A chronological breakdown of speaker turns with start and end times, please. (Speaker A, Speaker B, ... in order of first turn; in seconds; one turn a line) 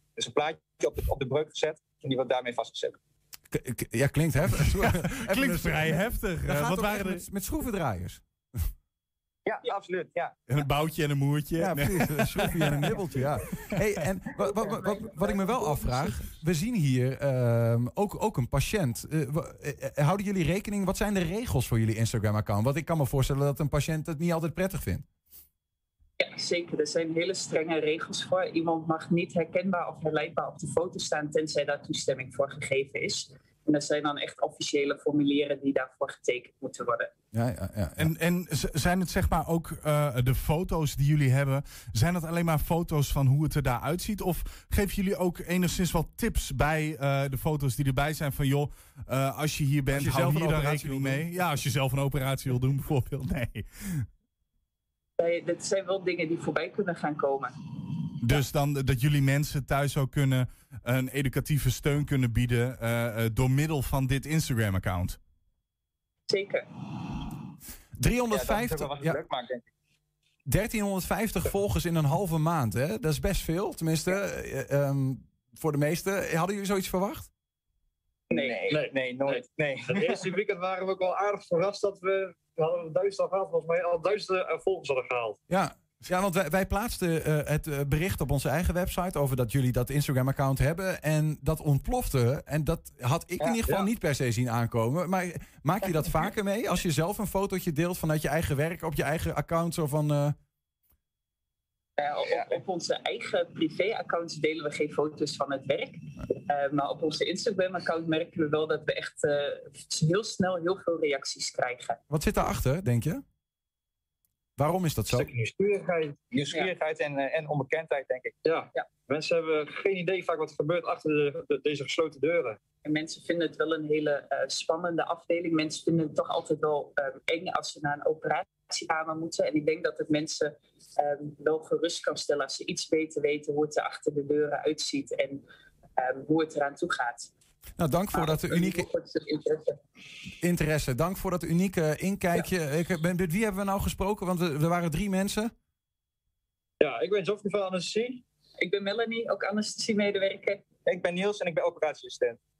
Speaker A: 0.1-3.0
Speaker B: 3.5-8.2
Speaker C: 4.8-7.2
Speaker A: 9.4-10.3
Speaker C: 10.5-12.9
Speaker B: 11.6-25.0
Speaker D: 26.2-37.1
Speaker B: 37.3-38.1
Speaker C: 38.0-54.0
Speaker B: 49.9-51.2
Speaker D: 55.2-57.5
Speaker C: 58.2-65.2
Speaker D: 66.3-66.7
Speaker B: 68.0-69.2
Speaker A: 68.3-69.7
Speaker B: 70.5-77.3
Speaker A: 78.3-80.3
Speaker D: 78.3-78.7
Speaker E: 78.7-85.4
Speaker B: 85.5-100.3
Speaker A: 93.4-93.9
Speaker D: 102.0-112.0
Speaker B: 112.1-113.2
Speaker B: 114.6-115.3
Speaker E: 115.1-116.2
Speaker A: 116.3-118.3
Speaker E: 118.4-122.6
Speaker D: 122.8-135.4
Speaker D: 136.0-137.3
Speaker B: 137.8-138.9
Speaker D: 138.1-139.8
Speaker B: 140.4-145.5
Speaker E: 146.8-148.2
Speaker D: 148.6-150.6
Speaker A: 150.8-152.4